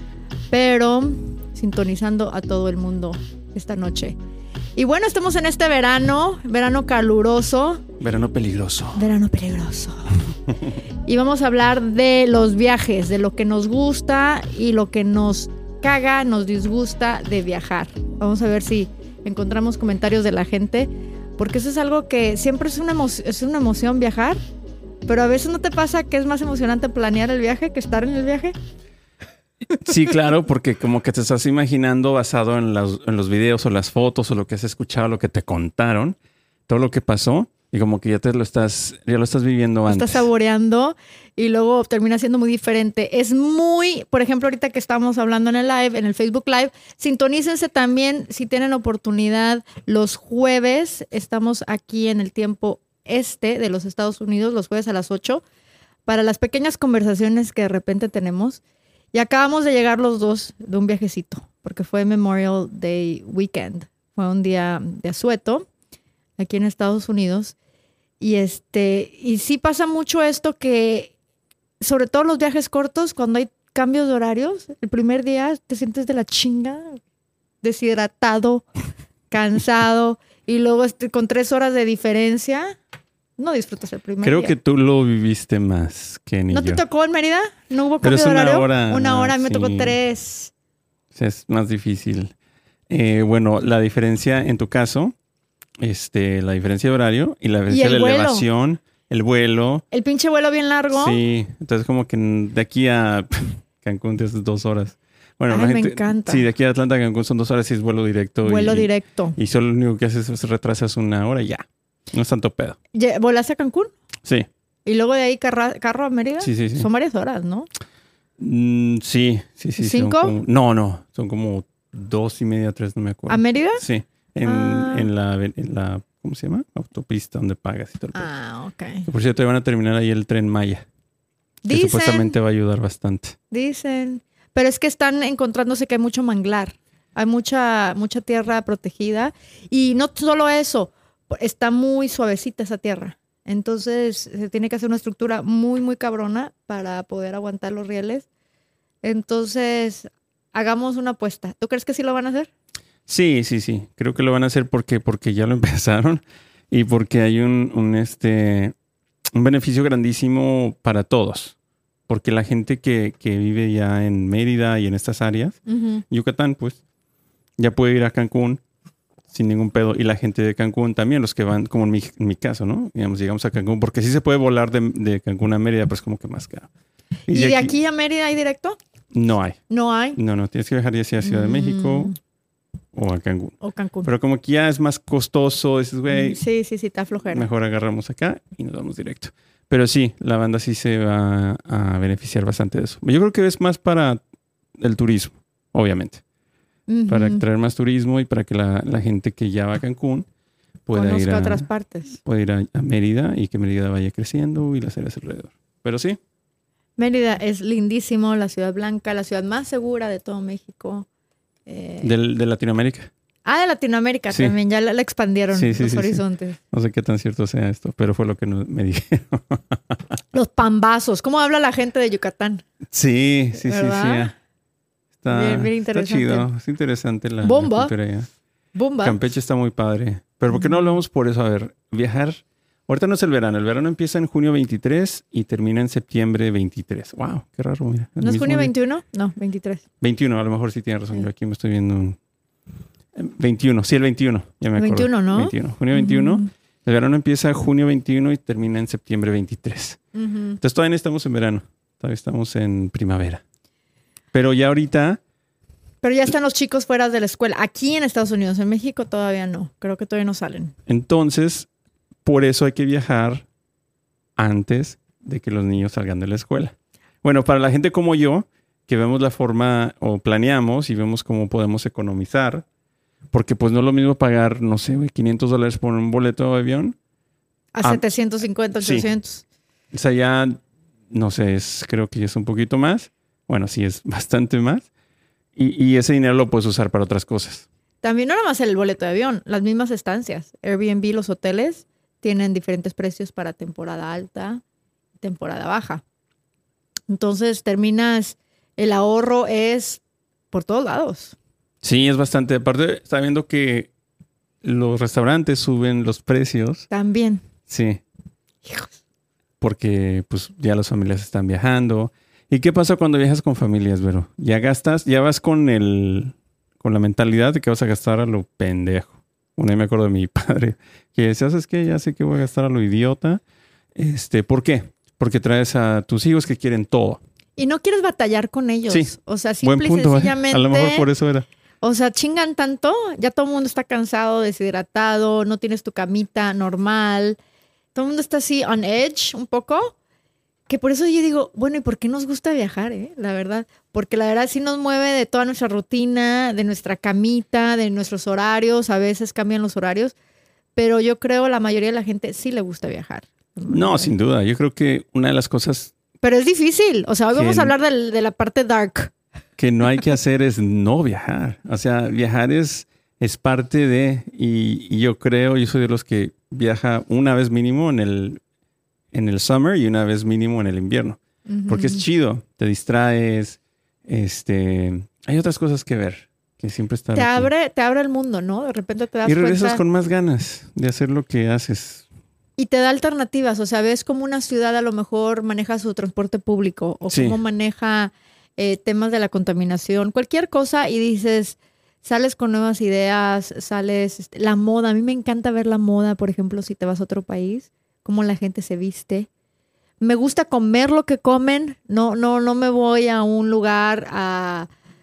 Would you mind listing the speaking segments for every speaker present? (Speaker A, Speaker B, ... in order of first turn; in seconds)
Speaker A: 0.5-4.2, 4.8-7.8, 8.9-10.1, 11.1-24.4, 25.1-28.5, 39.9-55.4, 56.1-58.6, 59.1-65.7, 66.4-67.5, 68.2-71.1, 71.8-77.0, 77.6-78.6, 79.3-82.8, 83.4-84.5, 86.5-90.5, 97.7-98.4, 99.9-101.2, 105.5-106.4, 108.4-109.4, 112.9-113.9, 114.8-117.7, 119.8-120.3, 123.3-123.8, 124.4-125.1, 128.1-129.1, 131.6-132.3, 133.5-148.2, 149.0-152.5, 165.7-166.0, 177.3-178.8, 179.7-180.2, 181.2-182.1, 183.6-184.1, 186.1-187.5, 196.9-197.4, 200.9-202.2, 207.0-211.1, 211.7-212.1, 213.4-216.6, 220.3-222.6, 223.6-224.3, 225.3-226.5, 227.4-227.9, 228.7-229.2, 230.5-230.9, 238.2-239.8, 244.8-246.5, 250.1-250.6, 256.0-260.7, 277.7-279.4, 288.0-294.6, 295.2-296.0, 297.1-301.4, 306.9-307.4, 308.6-308.9, 327.6-331.1, 331.8-337.4, 337.9-339.9, 340.7-350.1, 350.8-354.1, 356.2-359.1, 371.5-372.0, 377.1-379.8, 382.6-399.3, 400.0-404.7
Speaker B: 8.0-9.1, 29.7-36.2, 36.7-40.2, 84.2-86.8, 88.0-90.0, 91.1-92.3, 92.9-95.1, 95.8-99.8, 100.9-112.8, 116.4-116.9, 118.4-128.3, 129.1-130.8, 131.7-133.4, 153.1-158.7, 159.3-161.5, 162.1-165.6, 166.1-166.8, 167.6-168.6, 169.3-176.7, 177.3-177.7, 179.1-179.6, 180.2-182.1, 182.9-186.4, 187.3-194.2, 194.8-196.2, 197.1-200.3, 200.8-201.7, 202.2-206.2, 212.0-213.1, 214.3-214.5, 215.5-220.0, 222.9-224.3, 225.2-228.3, 229.0-238.7, 240.0-242.2, 243.1-250.0, 250.6-253.4, 254.3-255.2, 260.9-261.7, 262.2-263.4, 264.4-272.6, 273.3-276.9, 278.8-279.1, 279.9-284.9, 285.6-287.6, 301.8-303.9, 304.6-306.9, 307.7-308.0, 309.6-323.4, 323.9-327.2, 328.9-331.5, 353.7-355.9, 357.3-357.7, 359.6-368.4, 369.1-377.5, 379.2-382.0, 387.1-387.4